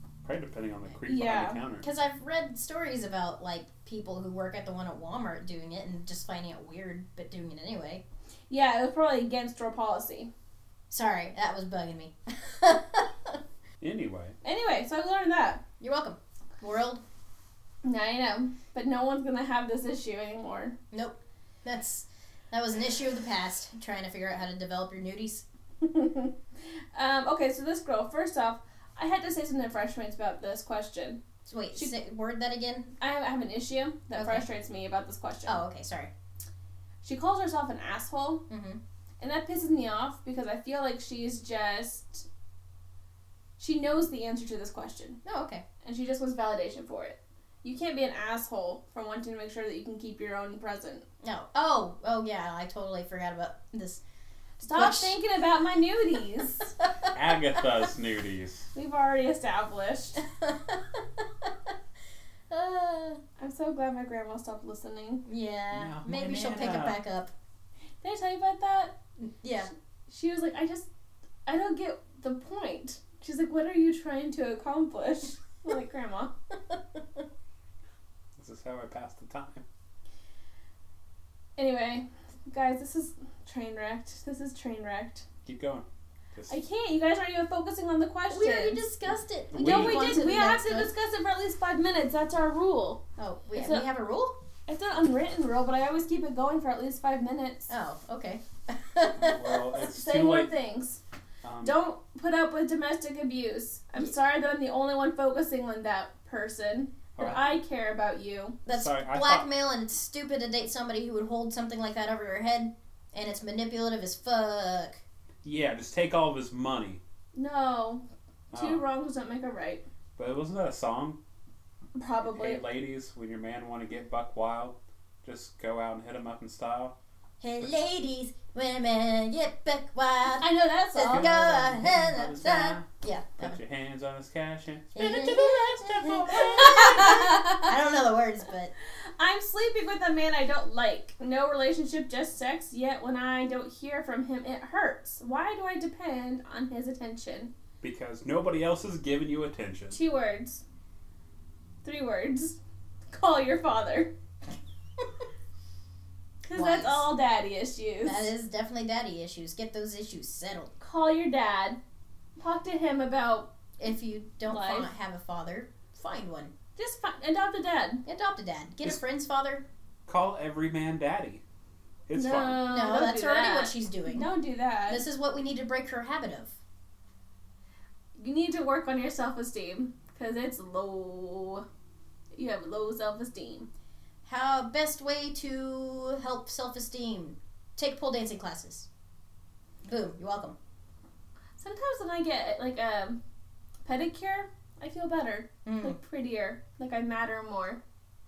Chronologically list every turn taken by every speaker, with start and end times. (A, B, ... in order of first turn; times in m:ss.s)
0:00.2-0:01.8 A
0:01.0-0:01.6 B
0:01.8-0:08.0 C
0:08.5-0:10.3 B
0:10.9-0:13.4 C
0:13.8-0:14.4 A
0:14.4-0:15.6 B
0:15.8-0:17.0 C
0:17.8-0:20.8 B
0:20.9-0:25.4 C
0:25.8-0:26.3 B
0:26.9-0:31.2 B
0:31.4-0:32.9 C
0:33.0-0:35.6 B
0:34.1-0:34.4 C
0:35.4-0:36.1 C
0:37.0-0:38.4 B
0:38.5-0:38.8 C
0:39.2-0:42.3 B
0:43.6-0:45.2 B
0:45.2-0:45.6 C
0:45.8-0:51.0 B
0:51.2-0:54.0 C
0:54.6-0:56.7 B
0:54.7-0:55.2 C
0:56.8-0:57.1 C
0:57.1-0:58.7 A
0:58.7-1:00.2 B
1:00.2-1:01.7 C
1:02.5-1:03.2 C
1:03.4-1:05.2 B
1:05.2-1:07.3 C
1:05.7-1:07.0 A
1:08.0-1:09.0 B
1:09.2-1:09.7 C
1:10.1-1:10.9 B
1:11.4-1:16.3 B
1:16.7-1:17.2 C
1:18.4-1:19.6 A
1:21.6-1:25.2 B
1:25.4-1:26.6 A
1:26.5-1:28.8 B
1:28.3-1:30.9 C
1:29.5-1:30.0 A
1:29.5-1:33.0 B
1:33.2-1:34.3 C
1:33.6-1:33.8 B
1:34.7-1:37.7 B
1:37.7-1:39.7 C
1:39.2-1:40.5 A
1:39.9-1:41.0 B
1:41.4-1:41.8 A
1:41.6-1:48.6 B
1:47.2-1:47.4 A
1:48.6-1:55.0 C
1:48.7-1:49.5 A
1:55.4-1:57.0 A
1:57.3-1:59.8 B
1:58.5-1:58.8 A
2:00.2-2:01.2 A
2:02.0-2:02.6 B
2:02.2-2:06.9 A
2:07.4-2:13.6 C
2:10.4-2:11.3 B
2:11.0-2:17.2 A
2:14.9-2:18.7 C
2:16.4-2:17.7 B
2:19.2-2:27.5 B
2:27.8-2:30.0 A
2:29.9-2:30.6 B
2:31.8-2:34.1 B
2:36.5-2:38.3 B
2:36.5-2:37.1 C
2:38.0-2:40.7 C
2:40.8-2:41.8 B
2:42.4-2:43.5 B
2:43.8-2:46.5 C
2:44.5-2:44.9 B
2:46.8-2:48.0 B
2:48.0-2:49.6 C
2:50.1-2:51.4 A
2:52.1-2:52.7 A
2:52.1-2:55.0 B
2:52.7-2:54.3 C
2:54.9-2:56.5 C
2:58.2-3:01.6 B
3:02.3-3:03.7 B
3:04.2-3:08.9 C
3:09.8-3:10.6 C
3:11.6-3:13.2 B
3:13.8-3:17.8 B
3:15.6-3:16.0 C